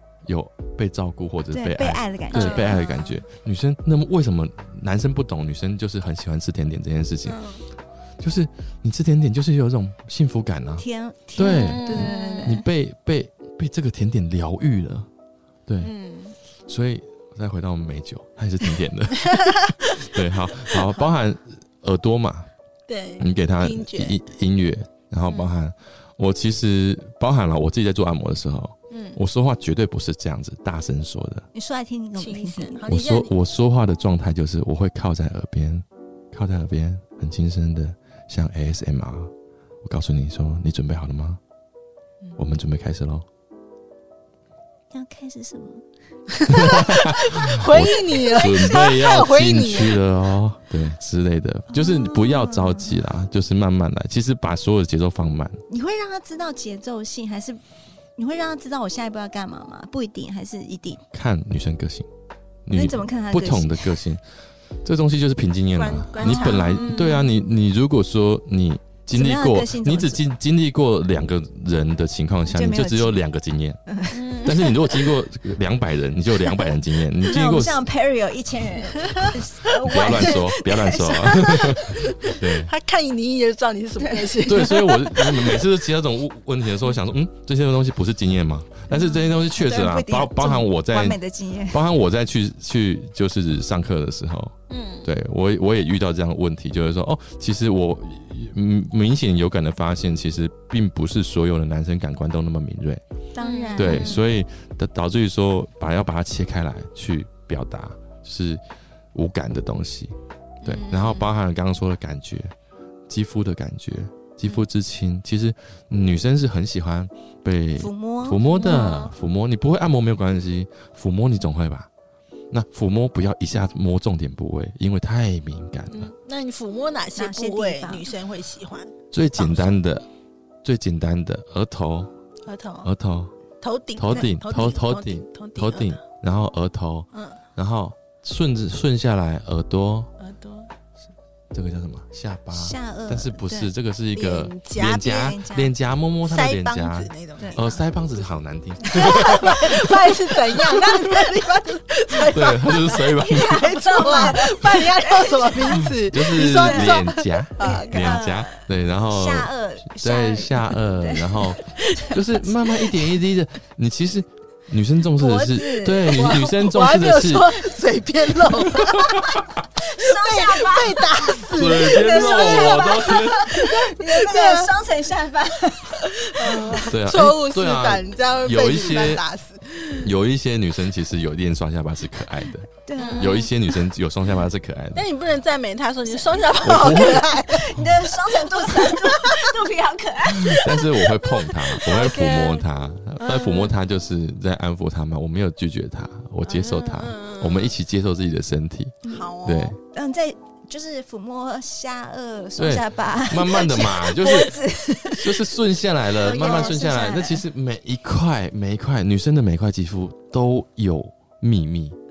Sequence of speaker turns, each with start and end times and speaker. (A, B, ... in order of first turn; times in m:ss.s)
0:00.2-0:07.4 A
0:01.5-0:03.2 B
0:02.3-0:02.7 C
0:07.2-0:07.6 C
0:08.2-0:10.8 A
0:10.8-0:12.7 B
0:11.4-0:15.1 A
0:11.5-0:12.6 C
0:15.6-0:15.9 A
0:15.8-0:16.3 C
0:16.7-0:22.5 A
0:19.2-0:19.7 C
0:22.9-0:24.2 C
0:23.2-0:31.5 A
0:28.9-0:29.2 C
0:31.5-0:32.8 B
0:32.2-0:33.3 C
0:32.8-0:39.3 A
0:39.8-0:41.4 A
0:42.4-0:43.2 A
0:44.9-0:45.8 B
0:46.3-0:50.0 C
0:46.5-0:55.6 A
0:51.7-0:53.0 B
0:55.7-0:57.6 B
0:58.2-1:01.0 B
1:01.1-1:02.1 A
1:02.6-1:04.2 A
1:02.7-1:04.0 B
1:04.8-1:13.8 A
1:05.8-1:07.2 C
1:06.2-1:07.4 B
1:09.1-1:10.2 B
1:12.5-1:13.2 B
1:13.9-1:14.1 B
1:14.1-1:14.8 C
1:14.4-1:17.8 A
1:17.2-1:21.8 B
1:19.0-1:20.3 C
1:19.8-1:22.7 A
1:21.3-1:25.6 C
1:24.4-1:43.0 A
1:28.9-1:31.9 B
1:34.7-1:35.1 C
1:43.3-1:44.2 B
1:43.4-1:44.2 C
1:43.8-1:48.6 A
1:49.1-1:50.1 A
1:50.6-1:51.3 C
1:50.6-1:52.5 A
1:53.1-2:01.9 A
1:57.8-1:58.9 B
1:58.5-1:59.1 C
2:02.5-2:06.1 A
2:05.9-2:09.8 C
2:07.2-2:08.1 B
2:09.1-2:10.1 A
2:10.6-2:12.1 A
2:12.4-2:12.9 C
2:12.8-2:13.3 A
2:13.6-2:16.0 C
2:14.0-2:20.1 A
2:17.1-2:17.4 C
2:20.2-2:20.7 C
2:21.5-2:30.1 A
2:22.5-2:23.7 B
2:24.1-2:25.2 C
2:24.9-2:25.7 B
2:26.2-2:28.2 C
2:27.4-2:27.7 B
2:28.8-2:38.2 C
2:30.7-2:31.3 A
2:32.2-2:34.5 A
2:33.3-2:43.2 B
2:35.7-2:47.6 A
2:45.2-2:46.5 B
2:46.1-2:54.7 C
2:48.5-2:49.4 A
2:49.8-2:56.9 B
2:51.5-2:53.6 A
2:56.2-3:00.1 C
2:56.9-2:59.2 A
3:00.0-3:05.1 A
3:02.8-3:03.5 B
3:03.0-3:03.4 C
3:04.9-3:09.6 C
3:06.1-3:12.6 B
3:06.6-3:07.9 A
3:10.3-3:19.8 A
3:11.9-3:12.4 C
3:13.2-3:13.7 C
3:16.4-3:17.7 C
3:19.1-3:19.8 C
3:19.8-3:25.5 B
3:22.6-3:24.5 A
3:25.1-3:32.0 A
3:26.1-3:27.4 B
3:26.4-3:26.7 C